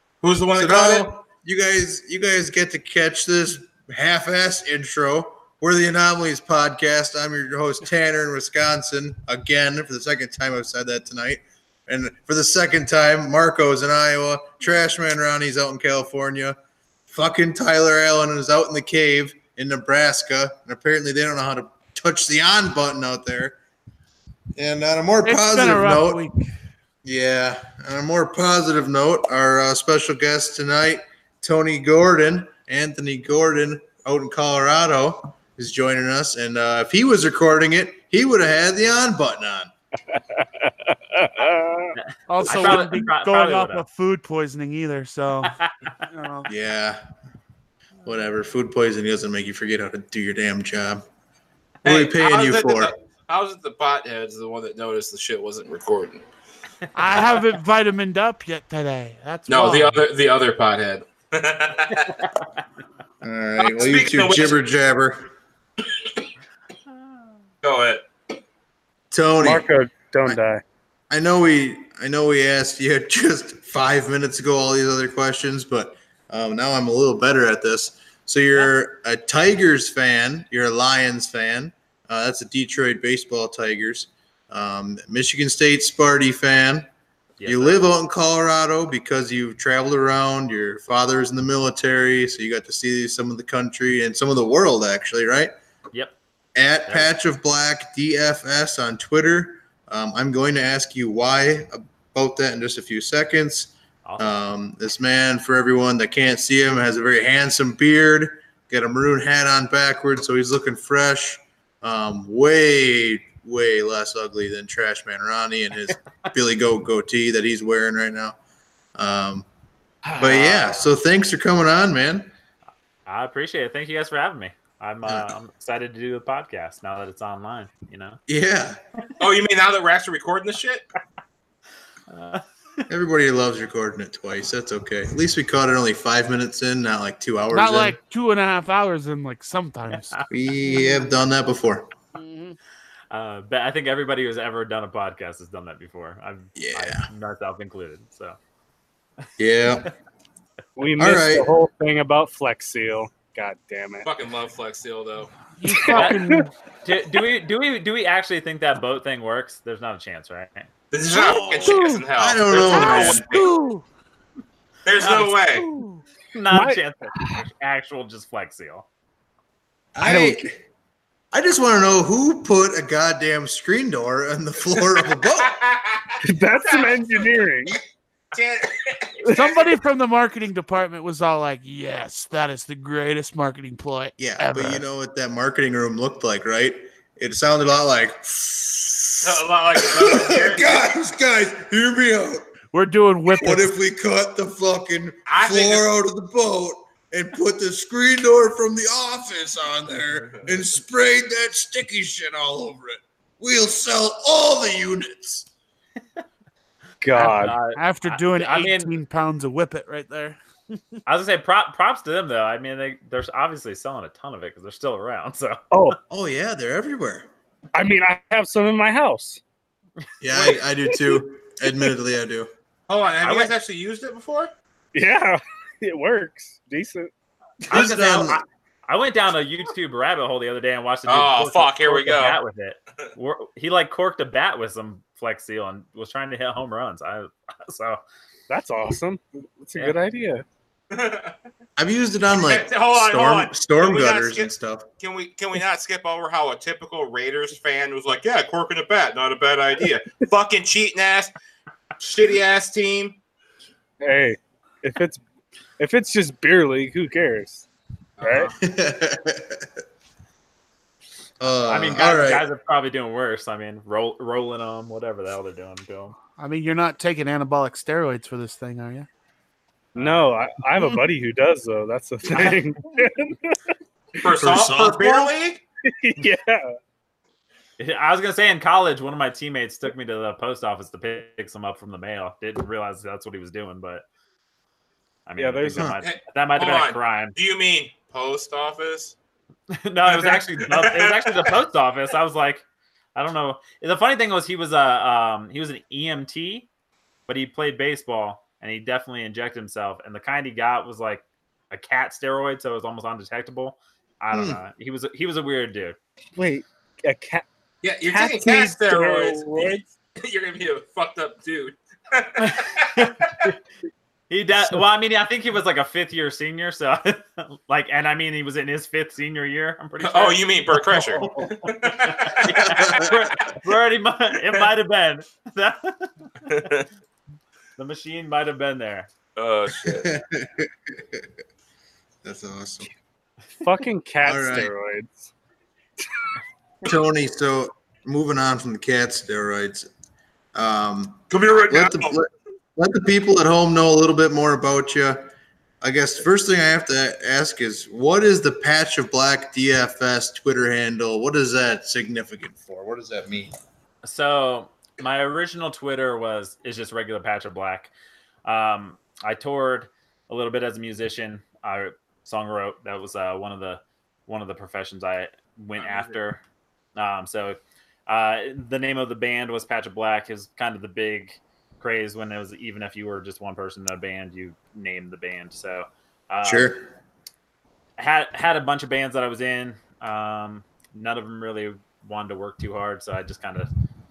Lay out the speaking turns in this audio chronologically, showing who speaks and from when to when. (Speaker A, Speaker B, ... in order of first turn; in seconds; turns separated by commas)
Speaker A: 0.2-1.1, Speaker B: 0.5-16.6, Speaker B: 17.1-23.6, Speaker B: 24.6-26.3, Speaker C: 25.2-26.5, Speaker B: 27.0-39.7, Speaker D: 40.1-41.9, Speaker E: 42.0-43.9, Speaker C: 42.3-46.5, Speaker E: 45.4-45.9, Speaker B: 46.5-47.0, Speaker B: 48.0-51.0, Speaker B: 51.8-52.9, Speaker A: 51.8-56.2, Speaker C: 56.9-60.0, Speaker A: 59.5-62.3, Speaker B: 63.2-65.2, Speaker A: 63.6-64.5, Speaker A: 67.6-68.0, Speaker B: 69.1-69.7, Speaker D: 69.4-70.6, Speaker B: 71.1-86.9, Speaker E: 87.4-87.8, Speaker B: 87.4-95.5, Speaker B: 96.5-118.4, Speaker E: 104.0-104.4, Speaker B: 119.0-119.5, Speaker E: 120.2-120.8, Speaker B: 120.2-122.3, Speaker E: 123.0-128.2, Speaker B: 128.3-128.8, Speaker A: 129.2-130.8, Speaker E: 132.1-132.8, Speaker B: 132.9-138.0, Speaker C: 137.5-140.2, Speaker B: 140.3-141.9, Speaker C: 140.7-141.0, Speaker C: 142.1-142.6, Speaker E: 143.1-148.4, Speaker B: 146.6-147.1, Speaker B: 149.4-149.9, Speaker D: 150.8-154.1, Speaker B: 151.0-151.5, Speaker A: 154.0-155.3, Speaker C: 155.6-156.5, Speaker D: 155.7-156.4, Speaker E: 156.8-160.7, Speaker A: 160.9-163.5, Speaker C: 161.2-163.8, Speaker B: 161.3-163.3, Speaker A: 164.8-165.7, Speaker E: 165.0-165.6, Speaker C: 165.5-166.0, Speaker E: 166.3-168.8, Speaker D: 166.5-167.1, Speaker B: 169.9-170.6, Speaker C: 170.0-170.4, Speaker B: 171.3-175.6, Speaker A: 175.4-177.4, Speaker D: 176.2-177.8, Speaker A: 178.3-179.6, Speaker C: 179.3-184.8, Speaker B: 184.2-192.5, Speaker A: 189.2-190.7, Speaker C: 192.7-193.7, Speaker B: 193.3-205.5, Speaker A: 195.3-195.8, Speaker D: 207.0-207.6, Speaker E: 207.1-208.9, Speaker C: 207.7-210.4, Speaker E: 211.1-215.6, Speaker D: 215.7-216.0, Speaker B: 216.1-217.3, Speaker D: 217.7-219.4, Speaker B: 220.2-222.5, Speaker A: 222.9-224.5, Speaker E: 223.2-223.5, Speaker D: 224.9-227.1, Speaker B: 227.7-228.4, Speaker E: 227.7-238.0, Speaker A: 231.1-232.4, Speaker D: 238.5-240.4, Speaker A: 240.9-241.3, Speaker B: 241.8-244.8, Speaker A: 242.3-251.3, Speaker A: 252.0-253.2, Speaker D: 254.0-255.2, Speaker D: 255.8-257.6, Speaker A: 258.2-258.6, Speaker D: 258.2-258.5, Speaker B: 258.6-259.7, Speaker B: 261.4-262.4, Speaker E: 261.7-266.2, Speaker C: 266.4-269.1, Speaker E: 269.9-270.3, Speaker D: 269.9-273.6, Speaker A: 274.2-275.6, Speaker B: 274.3-275.3, Speaker D: 275.9-276.8, Speaker E: 277.8-284.0, Speaker E: 285.2-287.4, Speaker D: 285.4-285.9, Speaker A: 286.0-289.1, Speaker E: 289.7-292.6, Speaker A: 290.1-291.4, Speaker E: 293.1-296.7, Speaker E: 297.3-305.9, Speaker B: 304.3-304.6, Speaker D: 306.4-307.4, Speaker A: 307.8-313.3, Speaker D: 308.1-309.8, Speaker E: 312.4-313.6, Speaker E: 314.3-320.4, Speaker A: 320.0-323.4, Speaker B: 320.9-321.7, Speaker E: 322.0-326.7, Speaker B: 322.5-323.1, Speaker A: 326.5-326.9, Speaker E: 327.8-329.1, Speaker A: 329.4-330.1, Speaker B: 329.8-331.2, Speaker B: 332.2-332.9, Speaker D: 333.6-335.3, Speaker B: 334.2-334.7, Speaker B: 336.8-339.9, Speaker B: 340.5-345.3, Speaker A: 341.3-342.1, Speaker B: 345.8-353.5, Speaker E: 354.0-357.9, Speaker E: 358.4-366.4, Speaker A: 365.8-366.1, Speaker E: 366.9-376.7, Speaker B: 376.4-376.9, Speaker E: 378.0-383.7